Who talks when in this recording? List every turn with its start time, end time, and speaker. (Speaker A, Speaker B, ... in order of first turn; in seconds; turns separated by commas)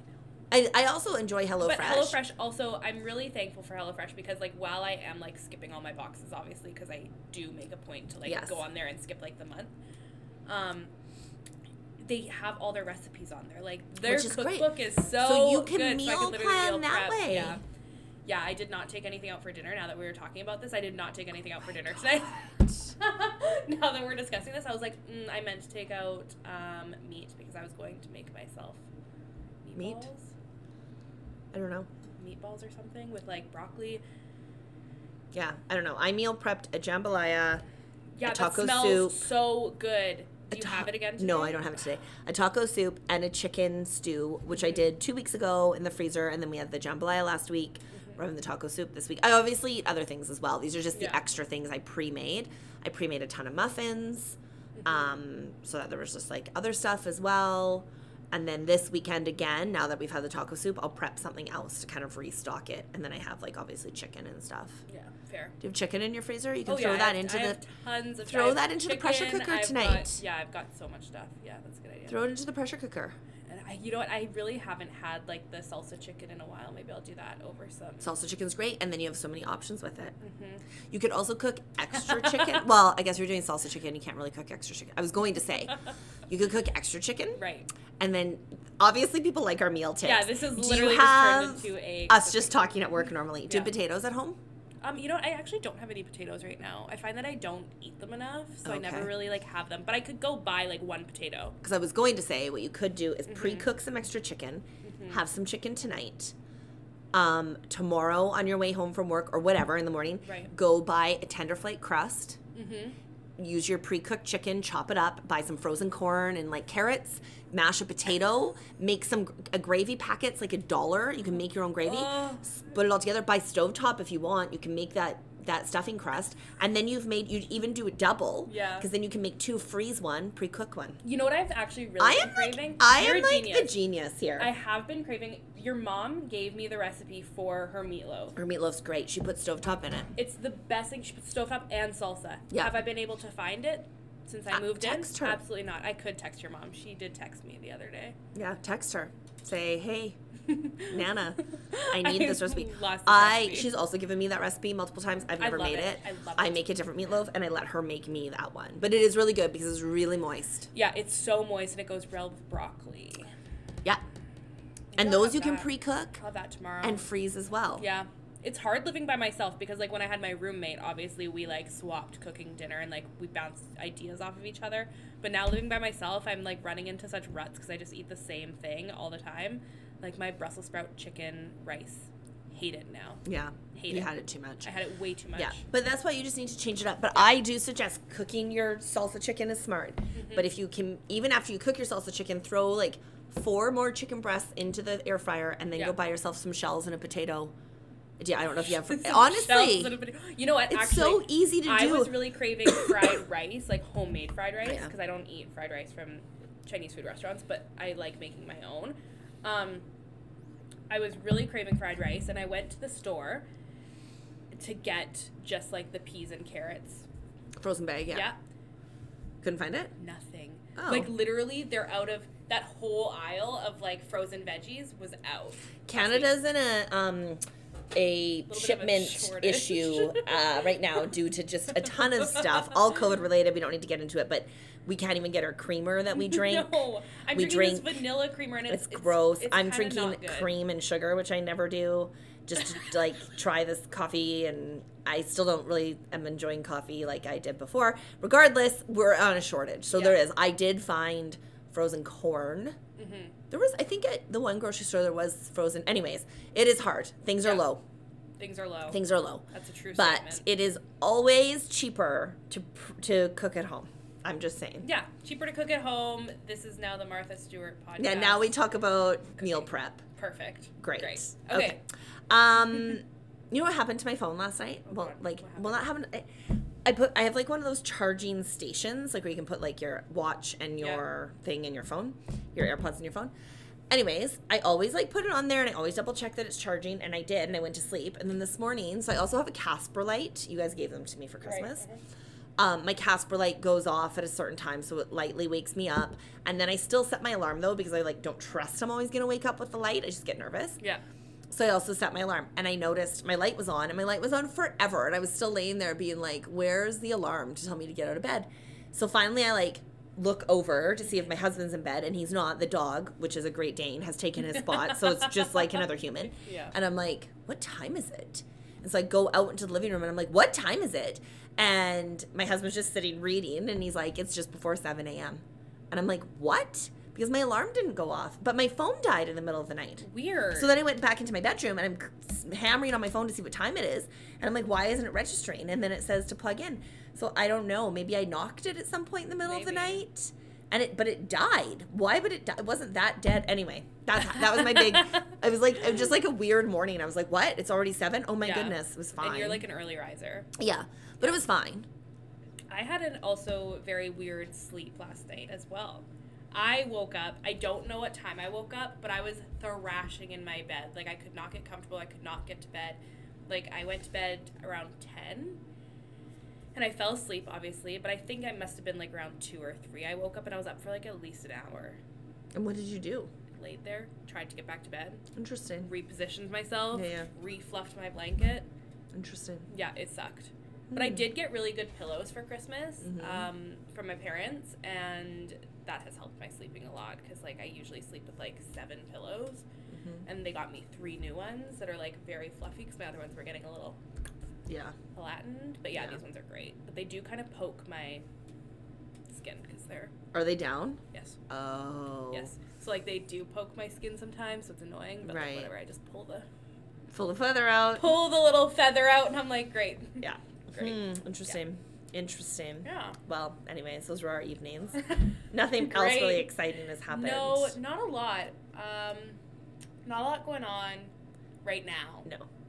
Speaker A: 0.5-2.2, Speaker B: 1.6-9.7, Speaker A: 8.3-8.6, Speaker B: 10.5-10.9, Speaker B: 12.0-17.6, Speaker A: 14.0-17.6, Speaker B: 18.2-28.8, Speaker B: 29.6-30.3, Speaker A: 29.8-30.1, Speaker A: 31.5-31.9, Speaker B: 32.2-34.0, Speaker A: 35.3-37.6, Speaker B: 38.2-41.6, Speaker A: 38.2-39.3, Speaker A: 40.5-64.9, Speaker B: 44.5-44.9, Speaker B: 50.9-51.2, Speaker B: 54.8-55.2, Speaker B: 64.9-65.6, Speaker A: 65.6-67.6, Speaker B: 66.7-72.2, Speaker A: 68.2-70.2, Speaker A: 72.1-73.2, Speaker B: 73.5-78.1, Speaker A: 78.0-80.2, Speaker B: 80.2-80.6, Speaker A: 80.9-87.4, Speaker B: 82.1-82.6, Speaker B: 87.4-87.7, Speaker A: 88.0-94.4, Speaker B: 90.0-92.6, Speaker B: 93.5-93.7, Speaker B: 94.8-101.6, Speaker A: 98.6-99.1, Speaker A: 101.6-106.3, Speaker B: 103.3-103.7, Speaker B: 104.8-105.2, Speaker A: 107.1-112.4, Speaker B: 110.2-110.5, Speaker B: 112.5-113.0, Speaker A: 113.4-131.0, Speaker B: 121.8-122.5, Speaker B: 128.5-128.9, Speaker B: 131.0-133.7, Speaker A: 132.0-134.5, Speaker B: 134.4-138.3, Speaker A: 138.3-140.1, Speaker B: 140.2-148.2, Speaker A: 142.5-142.8, Speaker A: 144.5-145.4, Speaker A: 148.3-150.2, Speaker B: 150.5-153.7, Speaker A: 150.8-160.7, Speaker B: 155.4-156.7, Speaker B: 160.7-163.3, Speaker B: 164.9-167.1, Speaker A: 165.0-166.2, Speaker A: 166.8-167.8, Speaker B: 167.8-184.1, Speaker A: 183.2-184.7, Speaker B: 184.6-185.6, Speaker A: 185.3-197.5, Speaker B: 190.1-190.5, Speaker A: 198.2-200.0, Speaker B: 198.6-209.8, Speaker A: 200.7-202.9, Speaker A: 204.6-204.9, Speaker B: 210.9-213.4, Speaker B: 214.6-217.1, Speaker A: 217.6-218.3, Speaker B: 218.1-218.4, Speaker A: 219.4-219.9, Speaker B: 220.0-226.3, Speaker A: 220.8-221.1, Speaker A: 225.9-227.4, Speaker A: 227.9-236.7, Speaker B: 228.5-230.7, Speaker B: 231.9-232.7, Speaker B: 236.1-240.5, Speaker A: 237.3-238.0, Speaker A: 238.7-252.8, Speaker B: 249.9-250.2, Speaker B: 253.0-253.3, Speaker A: 253.5-257.8, Speaker B: 258.4-259.0, Speaker A: 258.9-264.9, Speaker B: 259.5-260.4, Speaker B: 264.8-268.6, Speaker A: 268.0-270.1, Speaker B: 269.4-271.8, Speaker A: 270.8-276.3, Speaker B: 274.9-275.9, Speaker A: 276.9-283.3, Speaker A: 283.9-291.8, Speaker B: 291.4-292.0, Speaker A: 292.6-300.8, Speaker A: 301.5-349.6, Speaker B: 316.3-316.7, Speaker B: 330.0-330.7, Speaker B: 339.4-340.0, Speaker B: 344.4-345.0, Speaker B: 348.4-350.5, Speaker A: 350.6-351.9, Speaker B: 352.7-365.6, Speaker B: 366.8-372.0, Speaker A: 372.5-373.3, Speaker B: 373.5-375.2, Speaker A: 375.4-375.9, Speaker B: 375.8-378.7, Speaker A: 376.9-377.3, Speaker A: 379.1-379.7, Speaker B: 379.7-389.6, Speaker A: 380.9-381.3, Speaker A: 383.0-383.5, Speaker A: 389.9-390.2, Speaker B: 390.3-394.0, Speaker A: 394.7-394.9, Speaker B: 395.1-398.2, Speaker B: 399.3-400.1, Speaker A: 400.3-402.5, Speaker B: 401.1-401.4, Speaker B: 402.3-406.5, Speaker A: 405.2-405.7, Speaker A: 407.1-408.1, Speaker B: 408.0-411.5, Speaker A: 410.2-417.8, Speaker B: 412.9-413.2, Speaker B: 415.8-416.5, Speaker B: 417.1-419.4, Speaker B: 420.1-421.1, Speaker B: 421.6-422.3